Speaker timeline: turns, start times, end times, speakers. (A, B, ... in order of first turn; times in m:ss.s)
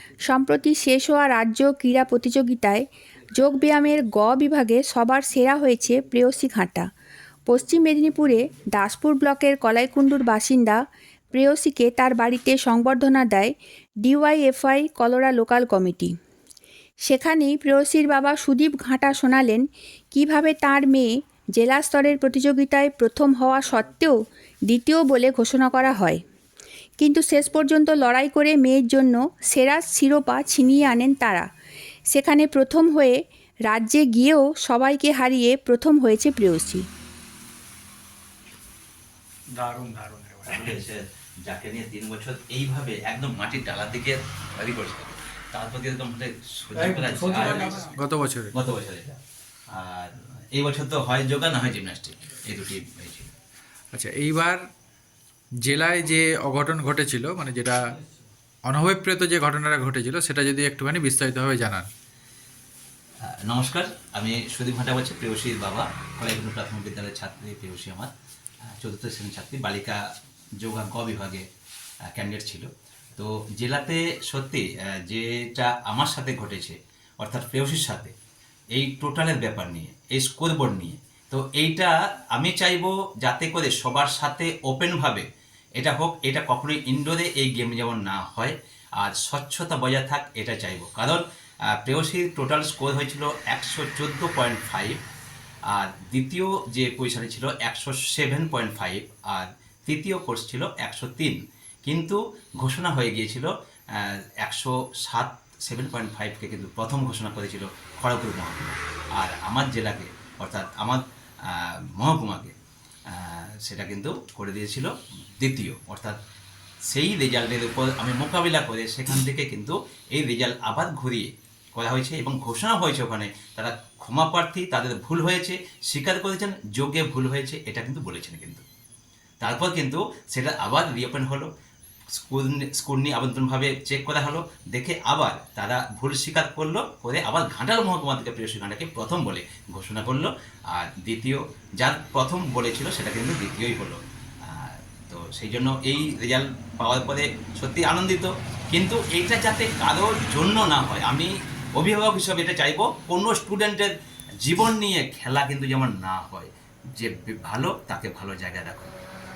0:00.2-0:06.9 A
0:07.5-0:10.8 A
0:11.3-0:16.2 A
0:17.0-0:26.2 A
0:27.0-0:31.5 A
0:32.1-0:36.9 A
0:39.5-0:40.7 B
0:40.4-0:47.9 C
0:46.8-0:48.6 B
0:48.5-0:49.2 C
0:49.7-0:53.3 C
0:53.9-0:54.6 B
0:55.6-0:57.9 B
0:58.7-1:01.9 B
1:03.2-1:08.1 C
1:08.6-1:10.0 C
1:10.6-1:11.4 C
1:12.1-1:18.1 C
1:18.7-1:35.0 C
1:35.7-1:52.5 C
1:53.1-1:56.2 C
1:56.9-2:08.6 C
2:09.4-2:11.5 C
2:12.2-2:39.0 C